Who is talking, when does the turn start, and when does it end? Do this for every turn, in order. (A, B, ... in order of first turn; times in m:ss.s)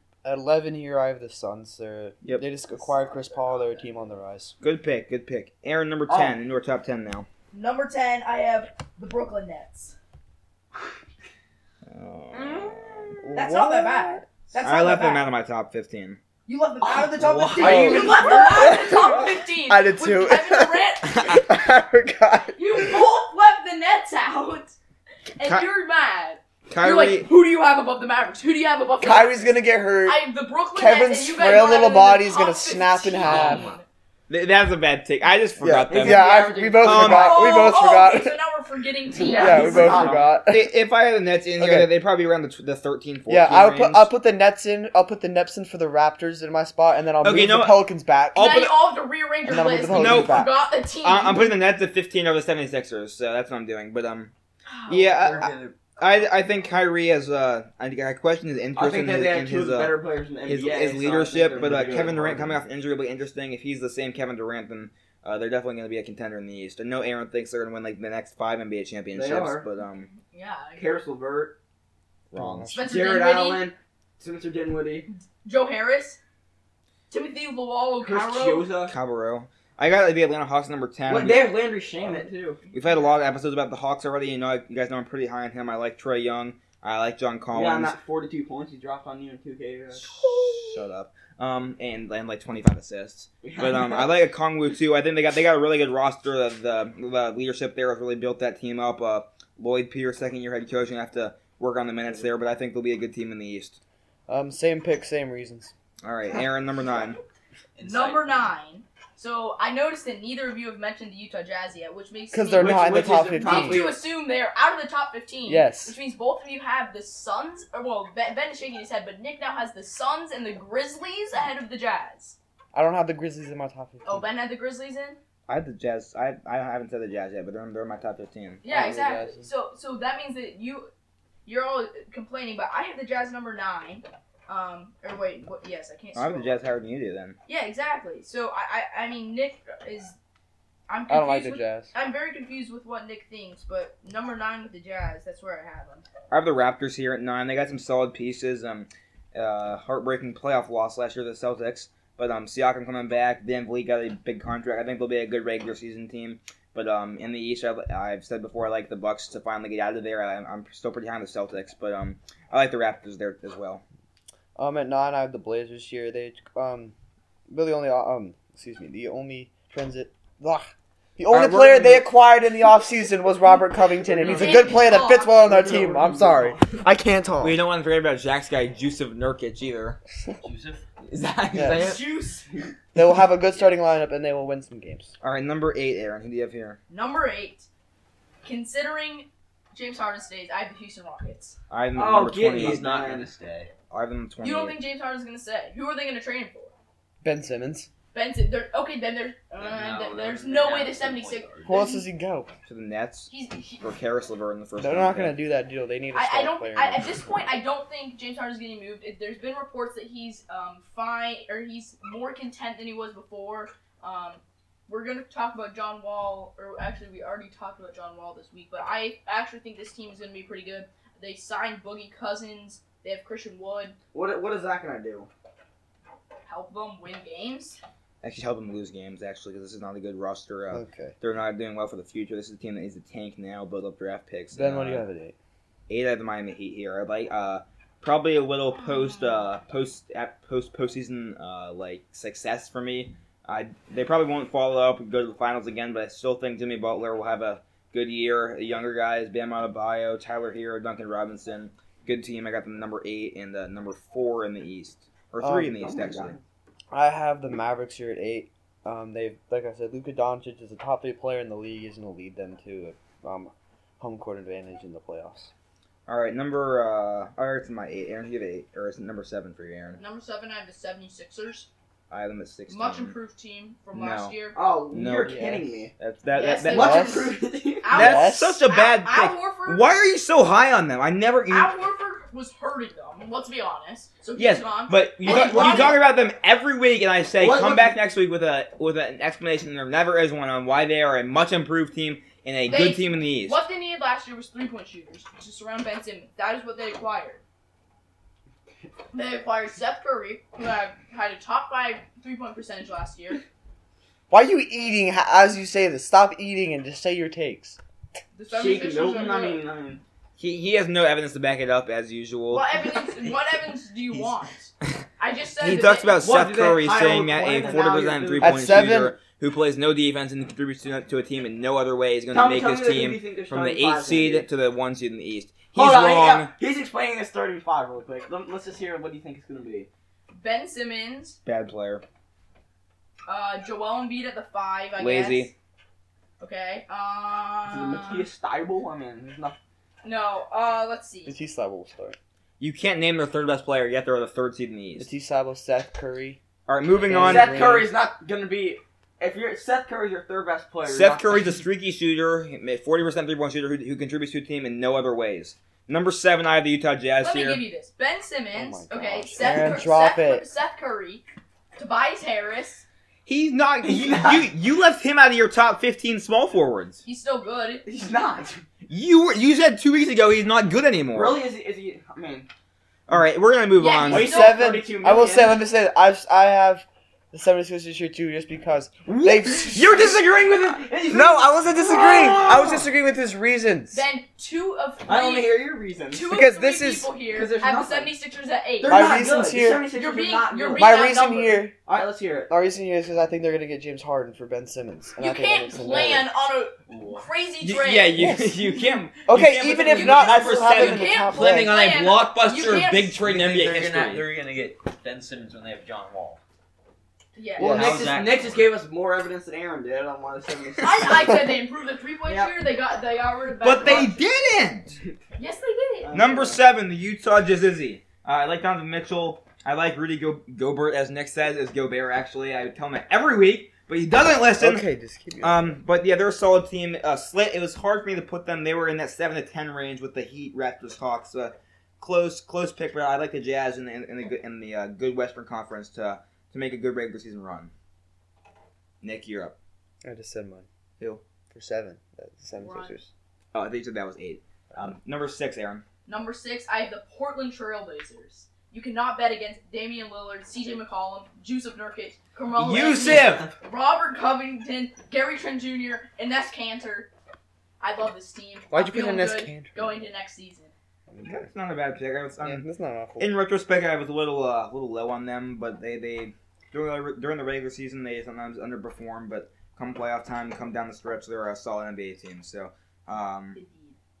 0:00.2-0:04.5 A
0:03.1-0:03.8 B
0:04.6-0:07.3 C
0:06.1-0:06.3 D
0:07.5-0:10.0 B
0:11.9-0:13.3 C
0:12.3-0:12.7 B
0:13.2-0:14.2 A
0:13.3-0:15.2 B
0:14.6-0:16.2 C
0:16.4-0:21.5 B
0:16.8-0:18.8 D
0:17.2-0:18.1 C
0:17.5-0:23.0 A
0:21.1-0:21.4 C
0:22.5-0:24.7 B
0:25.4-0:33.8 B
0:26.7-0:27.3 C
0:29.0-0:33.7 A
0:33.3-0:33.7 E
0:34.3-0:37.5 C
0:35.6-0:38.4 A
0:35.9-0:37.5 D
0:37.1-0:40.1 B
0:39.2-0:40.3 D
0:39.3-0:40.7 A
0:40.0-0:44.1 C
0:41.6-0:41.9 A
0:43.3-0:48.7 A
0:47.2-0:48.7 C
0:48.4-0:51.6 B
0:49.4-0:50.5 A
0:49.9-0:50.5 C
0:51.0-0:54.3 C
0:54.7-0:55.1 B
0:54.9-1:10.1 C
0:55.0-0:55.7 D
0:58.7-1:02.6 D
1:09.1-1:09.6 D
1:10.0-1:10.9 B
1:10.8-1:11.5 D
1:12.3-1:12.8 C
1:12.4-1:12.8 A
1:12.7-1:13.7 B
1:12.8-1:15.1 D
1:15.4-1:16.2 B
1:17.1-1:18.7 B
1:18.0-1:18.9 D
1:18.9-1:28.0 C
1:21.1-1:22.6 D
1:22.6-1:23.2 B
1:27.5-1:30.1 D
1:30.0-1:43.8 C
1:30.2-1:30.7 B
1:33.4-1:34.1 D
1:44.3-1:45.7 A
1:46.0-1:47.2 C
1:47.8-1:48.5 E
1:47.8-2:02.4 B
1:52.3-1:53.9 A
1:52.6-1:54.0 D
1:55.4-1:56.0 A
2:02.7-2:04.2 A
2:04.0-2:05.2 B
2:05.5-2:08.6 C
2:08.6-2:10.9 B
2:08.7-2:09.5 A
2:11.4-2:16.5 B
2:16.1-2:17.4 C
2:17.5-2:20.2 B
2:20.9-2:26.0 B
2:21.1-2:21.9 A
2:26.3-2:43.8 C
2:44.6-2:46.9 A
2:47.5-2:57.6 A
2:51.3-2:52.1 C
2:54.0-2:56.8 D
2:54.2-2:55.4 B
2:57.4-3:00.0 C
3:00.4-3:00.8 E
3:01.5-3:02.0 D
3:01.5-3:01.8 A
3:01.6-3:02.5 B
3:02.9-3:05.1 A
3:05.2-3:06.8 C
3:06.9-3:07.7 B
3:08.4-3:11.6 B
3:11.7-3:12.8 C
3:11.9-3:13.3 D
3:12.5-3:13.7 E
3:13.9-3:14.8 C
3:14.4-3:16.7 B
3:17.2-3:17.9 A
3:18.1-3:22.0 B
3:19.6-3:21.8 E
3:21.6-3:22.5 A
3:22.6-3:25.4 C
3:23.3-3:24.0 B
3:24.8-3:27.2 A
3:26.1-3:44.0 B
3:44.1-3:45.3 D
3:46.4-3:47.8 B
3:48.2-3:55.0 C
3:50.7-3:51.1 A
3:54.5-3:55.3 A
3:55.9-4:16.4 C
4:15.4-4:15.8 A
4:15.8-4:16.4 D
4:16.9-4:25.5 A
4:26.1-4:30.0 C
4:30.0-4:31.7 B
4:32.1-4:33.1 C
4:32.7-4:34.6 B
4:33.9-4:34.4 C
4:34.5-4:35.9 D
4:34.9-4:37.0 C
4:35.2-4:35.8 A
4:36.3-4:37.1 B
4:36.6-4:38.0 D
4:36.7-4:37.4 A
4:37.8-4:39.9 B
4:37.9-4:38.6 A
4:37.9-4:41.7 C
4:41.5-4:46.0 B
4:44.3-4:53.6 C
4:45.2-4:46.0 D
4:47.4-4:47.9 D
4:52.7-4:57.4 B
4:59.1-5:03.4 B
5:04.3-5:07.8 A
5:08.3-5:09.6 B
5:08.5-5:10.0 D
5:10.4-5:13.4 C
5:12.5-5:16.2 B
5:15.6-5:26.5 C
5:16.2-5:18.9 D
5:18.4-5:19.2 A
5:22.3-5:24.4 D
5:25.7-5:29.9 D
5:30.3-5:31.4 B
5:31.4-5:32.0 C
5:33.3-5:35.5 B
5:35.0-5:35.5 C
5:36.4-5:38.2 B
5:37.7-5:39.6 D
5:40.0-5:41.3 B
5:41.2-5:42.2 A
5:42.6-5:45.1 C
5:45.0-5:46.4 A
5:46.7-5:47.7 C
5:47.0-5:47.9 A
5:47.1-5:51.5 D
5:50.8-5:57.6 C
5:57.2-6:02.8 B
5:58.5-6:00.4 A
6:03.2-6:07.0 C
6:03.8-6:04.5 D
6:07.0-6:07.8 B
6:07.8-6:08.6 D
6:08.9-6:11.4 C
6:11.1-6:12.5 D
6:13.1-6:14.4 C
6:13.8-6:14.7 B
6:14.1-6:15.6 D
6:14.1-6:20.2 A
6:19.1-6:20.9 C
6:20.0-6:22.9 D
6:21.0-6:24.0 A
6:21.7-6:22.4 B
6:23.9-6:29.2 B
6:25.0-6:26.3 D
6:26.3-6:27.1 A
6:27.3-6:28.1 D
6:28.8-6:31.3 D
6:28.9-6:29.9 A
6:29.9-6:31.7 B
6:30.8-6:36.3 A
6:31.8-6:32.5 D
6:35.2-6:38.3 B
6:36.9-6:37.2 E
6:37.6-6:44.3 C
6:38.1-6:38.6 A
6:39.2-6:41.8 A
6:39.8-6:43.2 B
6:43.2-6:46.4 E
6:47.3-6:47.9 B
6:47.6-6:48.0 A
6:47.6-6:51.5 D
6:47.7-6:48.8 E
6:50.8-6:54.2 B
6:52.2-6:52.5 D
6:53.6-6:55.0 C
6:55.4-6:56.1 B
6:56.0-6:56.6 D
6:56.1-7:04.8 C
7:04.6-7:05.8 A
7:05.4-7:17.7 C
7:19.0-7:19.6 C
7:20.0-7:20.7 A
7:21.5-7:23.1 A
7:22.6-7:23.0 B
7:23.5-7:25.8 C
7:26.0-7:37.1 B
7:32.6-7:33.5 C
7:37.8-7:40.7 B
7:38.7-7:40.0 A
7:41.1-7:41.4 A
7:41.2-7:42.6 C
7:42.4-7:43.3 A
7:43.2-7:53.6 C
7:53.5-7:54.0 B